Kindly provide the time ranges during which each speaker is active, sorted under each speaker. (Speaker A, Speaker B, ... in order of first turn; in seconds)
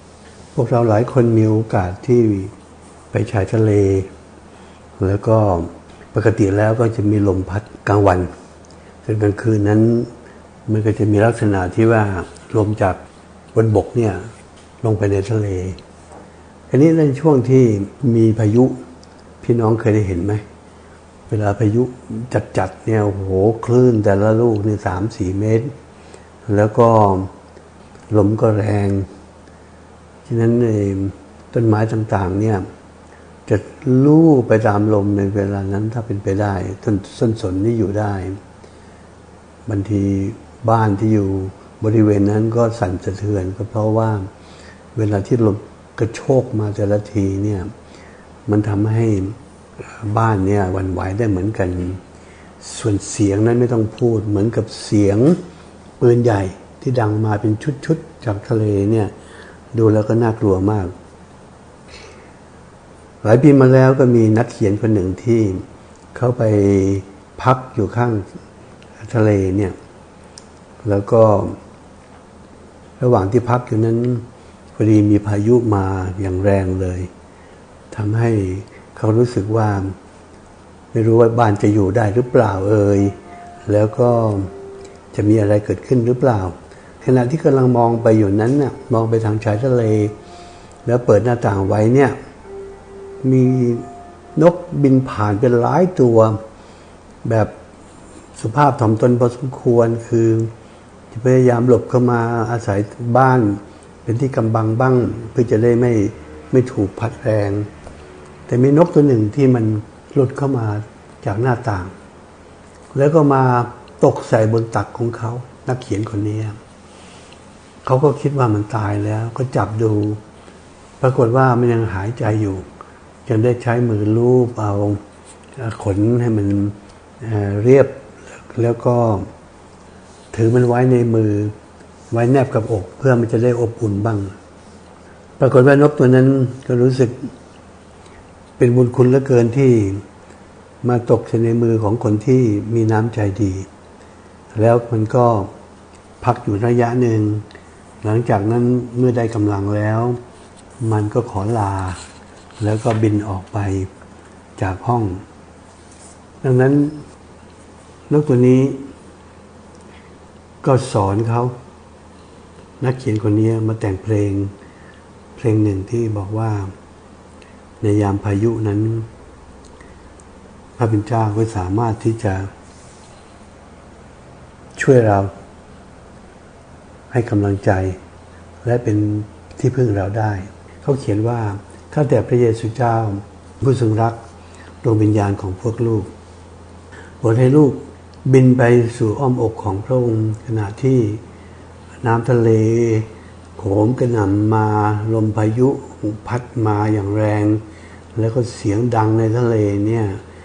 Speaker A: 0.5-2.5, 3.1-4.1, 5.0-8.3, 9.0-10.1, 10.7-13.0, 13.5-14.2, 14.8-15.8, 16.7-18.8, 19.4-20.4, 21.3-25.7, 26.5-27.3, 28.1-29.1, 30.3-32.6, 33.5-38.4, 39.7-44.3, 45.0-47.7, 48.5-49.4, 49.9-52.0, 52.6-55.4, 56.0-59.1, 59.7-60.9, 63.2-68.3, 69.0-69.8, 70.8-71.6, 73.0-77.1, 77.9-79.9, 80.9-83.2, 83.7-84.5, 85.1-90.2, 90.8-92.2, 93.2-96.4, 97.2-97.5, 98.4-100.5, 101.1-107.7, 108.5-111.9, 112.9-116.6, 117.8-120.2, 121.0-122.7, 123.3-125.0, 125.6-128.0, 128.5-129.3, 130.3-131.5, 132.1-134.3, 135.4-137.3, 138.6-140.0, 140.8-143.7, 144.5-145.5, 146.2-147.4, 148.0-150.2, 150.8-152.0, 152.6-153.9, 154.6-155.2, 156.4-157.0, 158.1-158.8, 160.6-161.5, 162.8-164.5, 165.4-166.7, 167.8-169.1, 170.8-172.5, 174.8-175.3, 177.1-178.0, 178.6-184.2, 184.8-186.1, 187.2-191.2, 192.0-197.6, 198.2-200.2